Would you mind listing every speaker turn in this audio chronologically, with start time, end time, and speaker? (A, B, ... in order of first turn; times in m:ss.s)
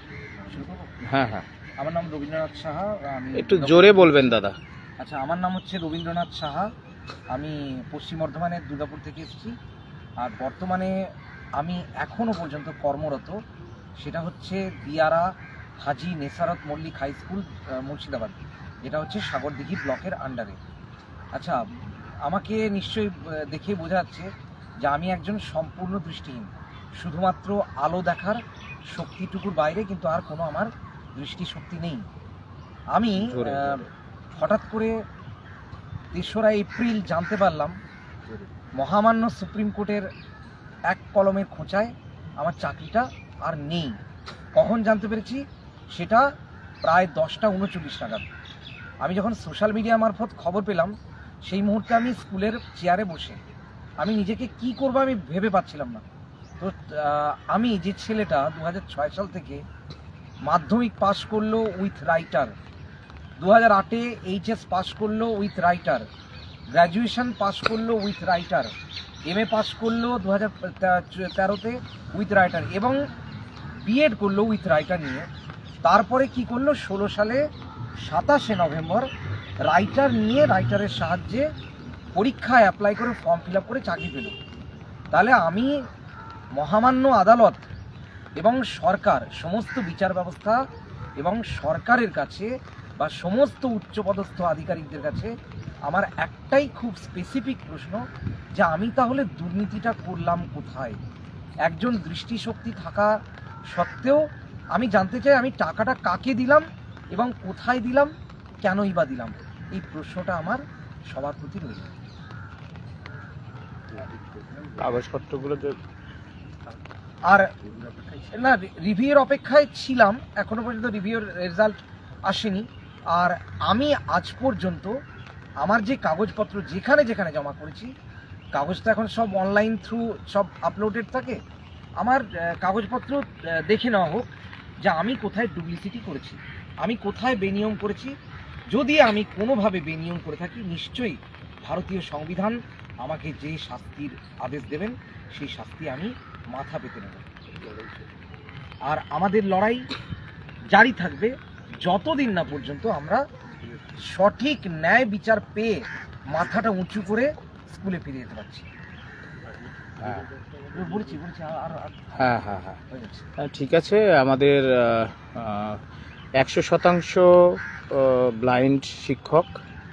0:00.5-0:00.9 A
0:01.0-0:01.5 B
0:01.8-0:04.3 A
0:03.4-0:04.6 B
0:05.0-0:06.7 A
0:07.3-0:09.6 A
0:10.2-0:11.0 A
0:11.6-0:13.4 A
0:14.0-0:20.6 A
0:21.3-0:21.6 A
0:22.2-0:24.3 A
0:24.8-0:32.0 A
0:32.9-0:33.8 A
0:33.2-0:33.9 B
0:34.4-0:35.0 A
0:36.1-0:37.8 A
0:38.8-0:40.1 A
0:40.9-0:44.0 A
0:44.5-0:46.3 A
0:46.8-0:48.3 A
0:49.0-0:50.9 A
0:51.4-0:53.4 A
0:54.0-0:56.0 A
0:56.6-0:59.6 A
1:00.4-1:02.5 A
1:03.4-1:06.1 A
1:06.7-1:08.7 A
1:09.3-1:13.0 A
1:13.8-1:15.3 A
1:15.8-1:17.4 A
1:18.0-1:19.1 A
1:19.7-1:21.5 A
1:22.2-1:24.4 A
1:25.1-1:25.8 A
1:26.6-1:27.7 A
1:28.4-1:30.6 A
1:31.2-1:35.3 A
1:35.8-1:38.0 A
1:38.6-1:41.0 A
1:41.6-1:43.2 A
1:43.7-1:51.9 A
1:54.8-1:55.8 B
1:57.3-2:01.8 A
2:02.3-2:05.0 A
2:05.6-2:07.9 A
2:08.5-2:11.4 A
2:12.0-2:14.3 A
2:14.8-2:18.1 A
2:18.7-2:27.3 A
2:28.9-2:29.9 A
2:30.7-2:33.2 A
2:34.0-2:38.7 A
2:40.7-2:43.3 A
2:42.2-2:42.8 B
2:43.4-2:45.8 B
2:46.4-2:49.5 B